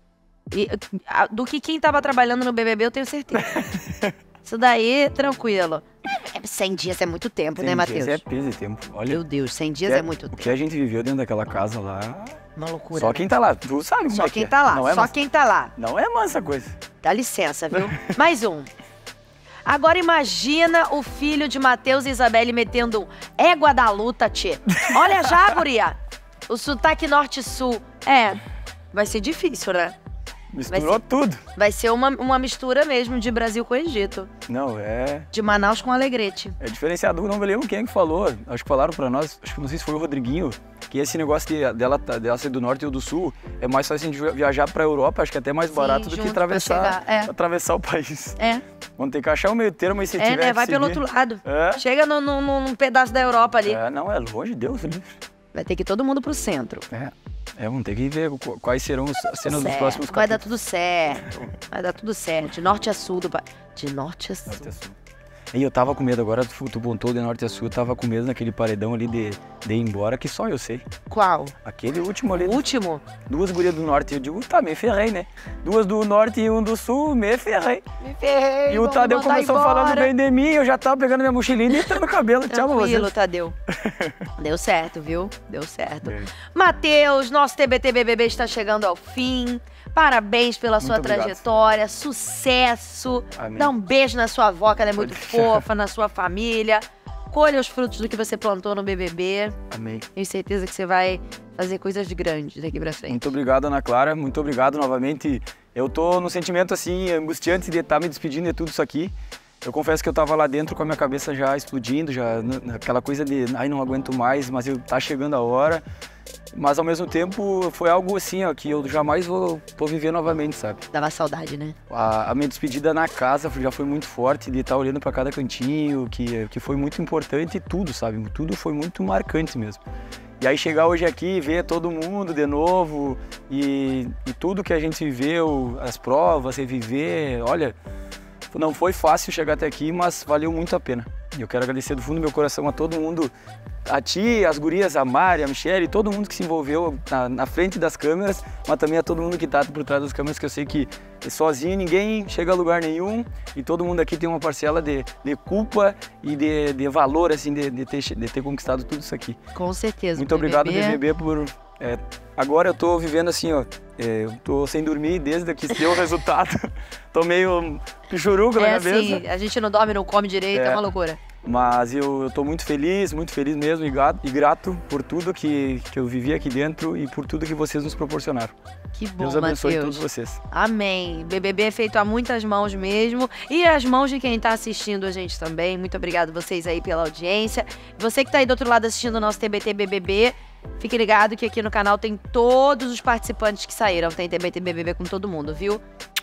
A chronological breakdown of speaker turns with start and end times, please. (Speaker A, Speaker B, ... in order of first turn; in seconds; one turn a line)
Speaker A: 0.5-3.7
Speaker B: 3.5-4.1
Speaker A: 4.4-8.2
Speaker B: 7.6-9.2
Speaker A: 9.1-10.6
Speaker B: 9.9-12.4
Speaker A: 12.6-13.3
Speaker B: 12.9-15.2
Speaker A: 14.1-15.7
Speaker B: 15.8-16.8
Speaker A: 17.0-18.7
Speaker A: 19.7-28.4
Speaker B: 24.8-25.4
Speaker A: 28.9-30.0
Speaker B: 30.5-31.4
Speaker A: 30.7-31.0
Speaker A: 31.6-34.3
Speaker B: 34.5-35.3
Speaker A: 35.3-36.6
Speaker B: 36.6-48.4
Speaker A: 45.7-47.3
Speaker A: 48.4-48.6
Speaker B: 49.0-51.8
Speaker A: 50.2-53.8
Speaker B: 53.6-55.2
Speaker A: 55.5-56.9
Speaker B: 56.9-60.4
Speaker A: 59.5-64.7
Speaker B: 64.5-65.0
Speaker B: 65.5-70.8
Speaker A: 71.1-71.5
Speaker B: 71.6-72.6
Speaker A: 72.4-73.0
Speaker B: 73.3-77.8
Speaker A: 78.0-80.1
Speaker B: 78.7-83.1
Speaker A: 82.5-83.5
Speaker B: 83.7-84.2
Speaker A: 84.4-99.6
Speaker B: 86.0-86.3
Speaker B: 90.8-91.4
Speaker B: 93.4-93.7
Speaker B: 95.0-95.7
Speaker B: 99.7-100.1
Speaker A: 100.2-103.3
Speaker B: 103.1-115.8
Speaker B: 116.5-120.8
Speaker A: 120.9-121.8
Speaker B: 121.9-129.8
Speaker B: 130.4-137.8
Speaker B: 138.5-143.3
Speaker B: 143.9-159.4
Speaker A: 159.6-161.0
Speaker B: 160.2-169.2
Speaker A: 168.6-171.2
Speaker B: 170.5-170.8
Speaker B: 171.4-178.5
Speaker A: 178.9-195.8
Speaker B: 179.2-180.4